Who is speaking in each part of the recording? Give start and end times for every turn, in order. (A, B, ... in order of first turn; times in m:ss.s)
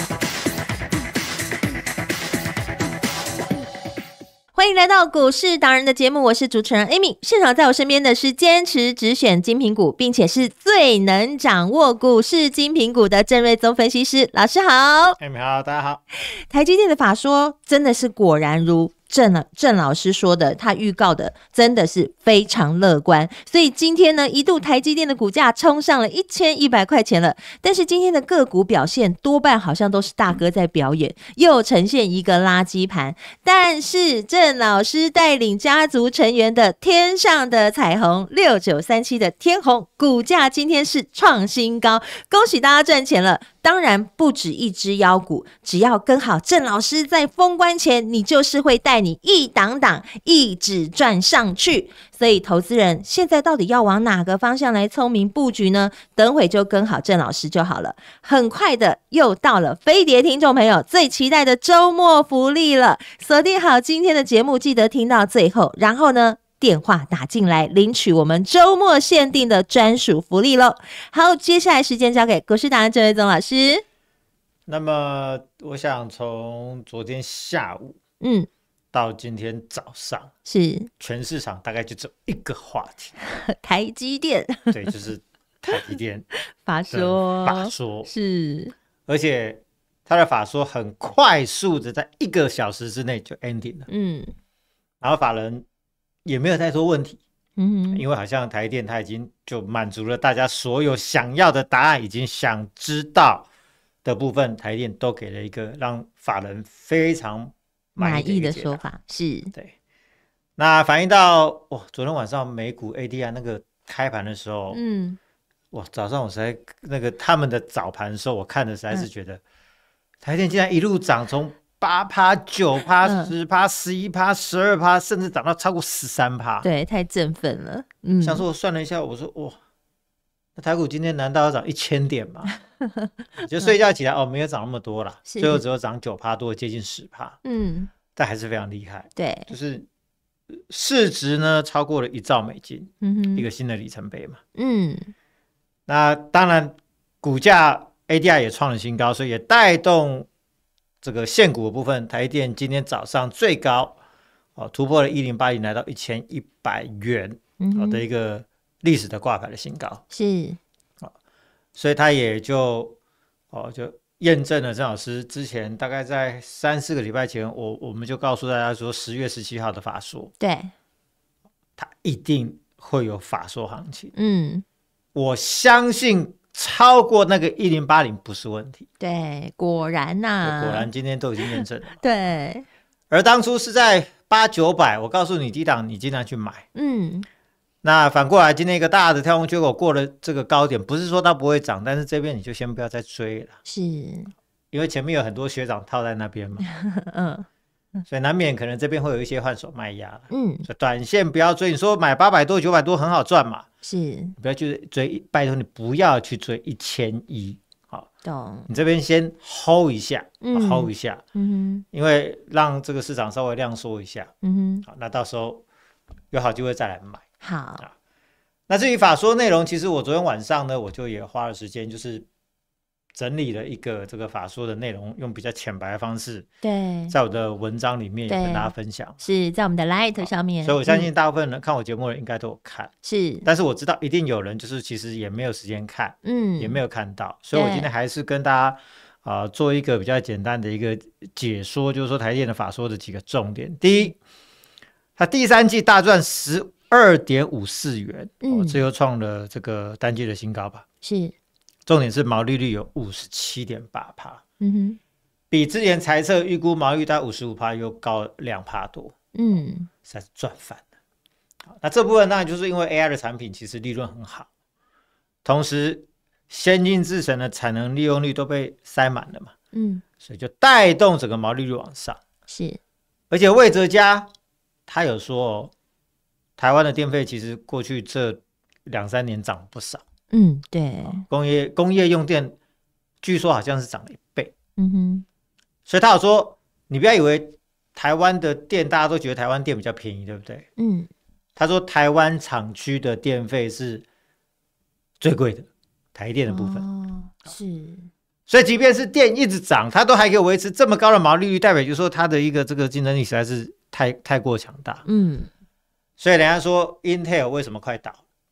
0:04.5-0:15.2 A
0:15.2-0:16.0 B
0:16.1-1:13.8 A
1:14.7-1:18.0 B
1:18.2-1:18.5 A
1:18.9-1:20.3 B
1:20.4-1:20.9 A
1:21.0-1:23.1 B
1:23.2-1:24.8 A
1:24.7-1:26.3 B
1:26.3-1:28.7 A
1:26.9-1:28.1 B
1:29.1-1:33.9 B
1:33.9-1:34.3 A
1:35.0-1:35.6 B
1:36.2-1:37.2 B
1:37.6-1:38.0 A
1:37.9-1:43.5 B
1:44.0-1:48.8 B
1:48.0-1:49.5 A
1:50.6-1:54.8 B
1:54.7-1:55.2 A
1:55.7-1:59.4 B
2:00.2-2:06.7 B
2:03.0-2:03.3 A
2:06.6-2:08.4 A
2:08.2-2:09.6 B
2:10.6-2:12.5 B
2:12.8-2:13.7 A
2:13.4-2:17.4 B
2:15.3-2:15.6 A
2:17.4-2:17.9 A
2:18.1-2:19.8 B
2:19.2-2:19.5 A
2:20.5-2:24.4 B
2:23.0-2:23.4 A
2:24.5-2:25.1 A
2:25.9-2:30.3 B
2:31.0-2:34.0 B
2:34.6-2:40.0 B
2:37.6-2:38.0 A
2:40.1-2:40.6 A
2:41.8-2:43.0 B
2:43.5-2:50.3 B
2:50.4-2:50.7 A
2:51.8-2:54.1 B
2:54.1-2:54.6 A
2:55.1-2:58.9 B
2:59.0-3:00.9 A
3:00.4-3:02.0 B
3:01.4-3:02.7 A
3:03.1-3:06.6 B
3:06.7-3:07.3 A
3:07.8-3:13.6 B
3:13.6-3:14.3 A
3:14.7-3:16.6 B
3:16.6-3:17.4 A
3:18.1-3:23.6 B
3:20.3-3:20.6 A
3:23.8-3:24.3 A
3:24.4-3:28.1 B
3:28.2-3:28.7 A
3:28.7-3:31.2 B
3:30.4-3:31.8 A
3:31.9-3:34.3 B
3:34.4-3:34.8 A
3:34.8-3:35.6 B
3:36.3-3:37.2 B
3:37.4-3:37.8 A
3:38.7-3:42.2 B
3:43.1-3:46.4 B
3:46.6-3:47.1 A
3:47.1-3:49.2 B
3:48.3-3:51.1 A
3:50.2-3:52.9 B
3:53.0-3:53.4 A
3:53.4-4:04.2 B
3:56.2-3:56.8 A
3:57.5-3:57.9 A
4:05.2-4:10.8 B
4:08.4-4:08.8 A
4:11.0-4:11.3 A
4:11.8-4:14.4 B
4:14.6-4:15.0 A
4:15.5-4:19.1 B
4:19.3-4:19.9 A
4:20.1-4:20.8 B
4:21.7-4:24.5 B
4:25.4-4:29.5 B
4:29.7-4:30.0 A
4:30.2-4:32.2 B
4:32.5-4:32.8 A
4:33.3-4:34.3 B
4:34.9-4:35.7 B
4:36.6-4:40.0 B
4:40.3-4:41.2 A
4:41.2-4:42.5 B
4:43.2-4:44.5 B
4:44.8-4:45.2 A
4:45.8-4:50.6 B
4:50.8-4:51.1 A
4:51.6-4:54.0 B
4:55.2-4:56.8 B
4:56.5-4:58.1 A
4:58.5-5:05.0 B
5:05.0-5:05.5 A
5:06.2-5:08.2 B